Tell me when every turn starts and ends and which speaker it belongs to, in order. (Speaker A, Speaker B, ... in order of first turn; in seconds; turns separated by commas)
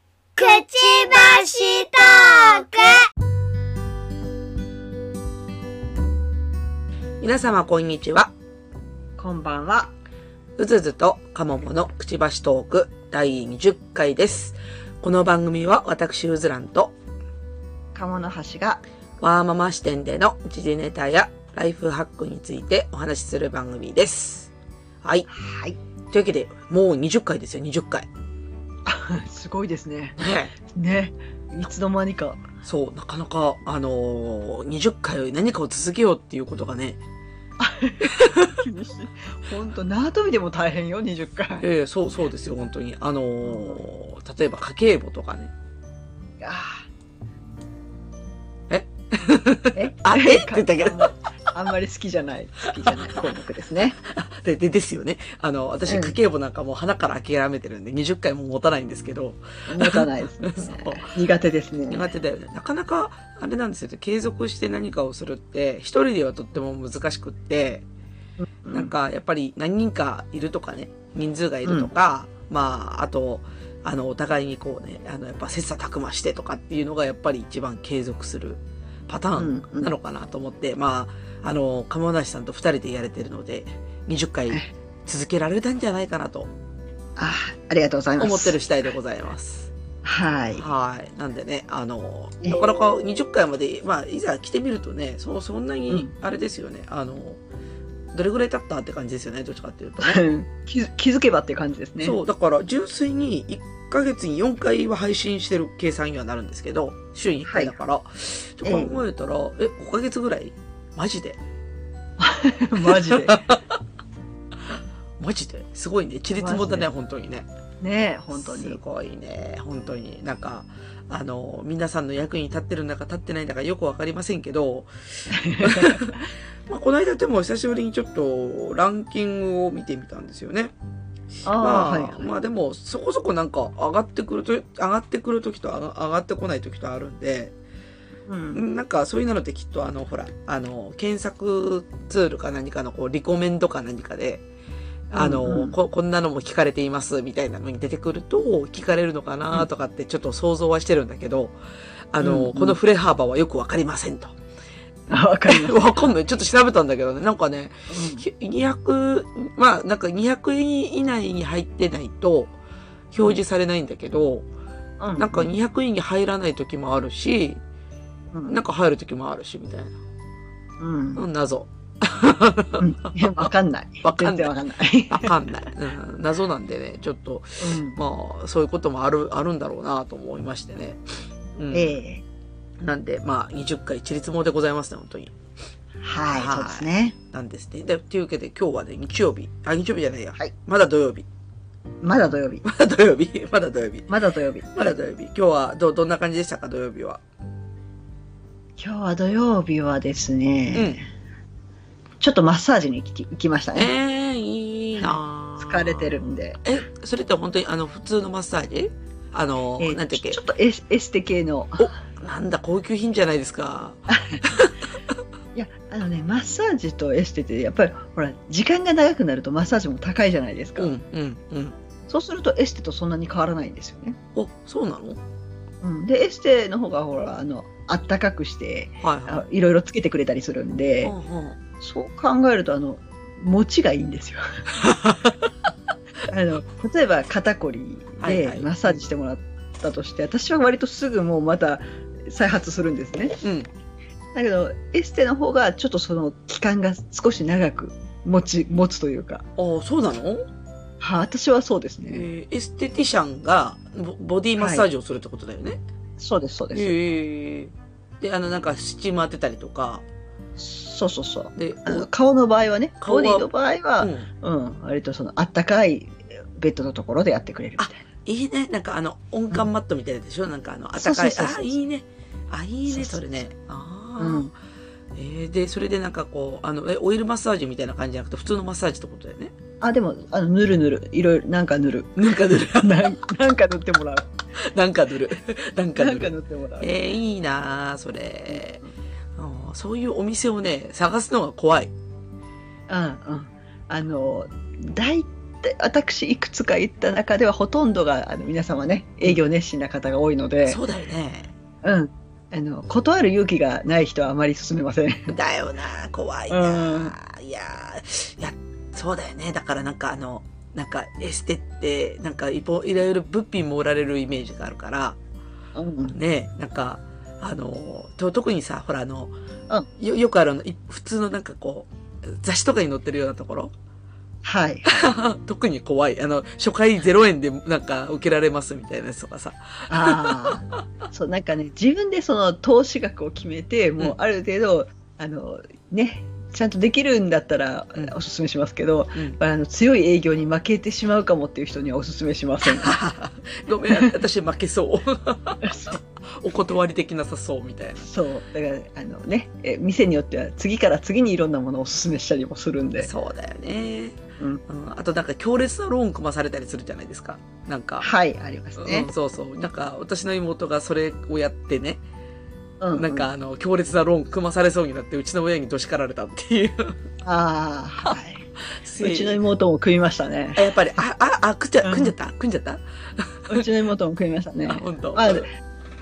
Speaker A: 0.4-3.1, Speaker B: 7.2-8.3, Speaker C: 9.2-9.9, Speaker B: 10.6-16.9, Speaker C: 17.9-18.8, Speaker B: 19.2-24.5, Speaker C: 25.3-25.8, Speaker B: 26.1-28.1, Speaker C: 28.9-32.4, Speaker B: 30.2-30.5, Speaker B: 32.6-37.0, Speaker C: 37.6-41.6, Speaker B: 38.1-38.5, Speaker B: 41.6-45.5, Speaker C: 43.5-43.8, Speaker C: 46.4-46.8, Speaker B: 48.7-51.1, Speaker C: 49.7-54.0, Speaker B: 54.0-61.1, Speaker C: 55.9-56.2, Speaker C: 59.7-62.1, Speaker B: 61.9-67.8, Speaker C: 68.4-68.9, Speaker B: 68.7-86.5, Speaker C: 71.7-71.9, Speaker C: 79.4-79.9, Speaker C: 87.2-88.6, Speaker B: 88.2-89.7, Speaker C: 90.0-90.6, Speaker B: 90.6-97.4, Speaker B: 98.1-100.2, Speaker C: 100.0-102.2, Speaker B: 102.0-111.4, Speaker C: 107.5-107.8, Speaker C: 108.6-109.0, Speaker C: 112.2-113.5, Speaker B: 112.8-113.6, Speaker B: 115.2-117.5, Speaker C: 116.4-116.9, Speaker C: 117.8-118.8, Speaker B: 118.3-124.9, Speaker C: 125.3-126.2, Speaker B: 125.6-130.7, Speaker C: 131.4-132.3, Speaker B: 131.6-137.5, Speaker C: 138.3-138.6, Speaker B: 138.5-144.4, Speaker B: 145.1-151.6, Speaker C: 145.1-145.8, Speaker B: 152.1-154.3, Speaker C: 152.2-152.8, Speaker C: 155.1-155.8, Speaker B: 155.5-162.5, Speaker C: 157.9-158.2, Speaker B: 163.1-164.5, Speaker C: 165.0-165.5, Speaker B: 165.2-167.6, Speaker C: 168.3-168.6, Speaker B: 168.5-169.9, Speaker C: 170.8-171.2, Speaker B: 171.2-173.5, Speaker C: 172.8-175.4, Speaker B: 174.0-174.5, Speaker B: 175.1-181.0, Speaker C: 177.6-178.0, Speaker B: 181.6-181.9, Speaker C: 181.7-182.2, Speaker B: 182.8-185.4, Speaker C: 186.0-187.2, Speaker B: 186.3-191.3, Speaker C: 192.0-192.7, Speaker B: 192.6-194.1, Speaker C: 194.1-195.0, Speaker B: 194.7-197.2, Speaker C: 198.8-201.1, Speaker B: 200.7-201.0, Speaker C: 202.2-203.9, Speaker B: 203.8-210.4, Speaker C: 205.0-206.6, Speaker C: 209.8-212.0, Speaker B: 211.8-214.7, Speaker C: 214.1-214.4, Speaker C: 215.6-220.9, Speaker B: 220.8-221.8, Speaker C: 222.1-224.2, Speaker B: 224.4-225.2, Speaker C: 225.8-231.1, Speaker B: 229.0-229.4, Speaker B: 231.0-231.6, Speaker C: 231.8-234.6, Speaker B: 234.8-235.4, Speaker C: 236.3-243.4, Speaker B: 238.2-239.1, Speaker B: 243.4-243.7, Speaker C: 244.3-249.4, Speaker B: 249.6-250.5, Speaker C: 251.0-252.3, Speaker B: 252.1-255.8, Speaker C: 254.6-254.9, Speaker C: 256.2-256.9, Speaker B: 256.7-260.1, Speaker C: 260.6-268.0, Speaker B: 261.6-262.1, Speaker B: 263.0-263.5, Speaker B: 264.0-264.3, Speaker B: 267.8-274.5, Speaker C: 271.0-271.8, Speaker C: 272.9-273.2, Speaker C: 274.2-274.5, Speaker B: 275.1-279.5, Speaker C: 279.8-282.2, Speaker B: 282.2-283.1, Speaker C: 282.8-284.3, Speaker B: 284.6-288.8, Speaker C: 286.0-286.9, Speaker B: 289.4-291.9, Speaker C: 292.9-300.8, Speaker B: 300.7-301.5, Speaker C: 301.8-305.3, Speaker B: 305.3-315.2, Speaker C: 306.5-307.1, Speaker C: 315.8-316.2, Speaker B: 316.1-319.3, Speaker B: 320.0-323.7, Speaker C: 324.4-325.1, Speaker B: 324.9-330.6, Speaker C: 329.9-343.0, Speaker B: 342.6-348.1, Speaker C: 345.6-346.0, Speaker C: 348.0-353.1, Speaker B: 353.0-358.1, Speaker C: 358.0-359.1, Speaker B: 358.8-362.0, Speaker C: 362.8-363.3, Speaker B: 363.0-367.0, Speaker C: 367.2-368.5, Speaker B: 368.8-369.4, Speaker C: 369.0-370.6, Speaker B: 370.6-373.6, Speaker C: 371.8-372.1, Speaker C: 373.5-375.5, Speaker B: 374.7-375.5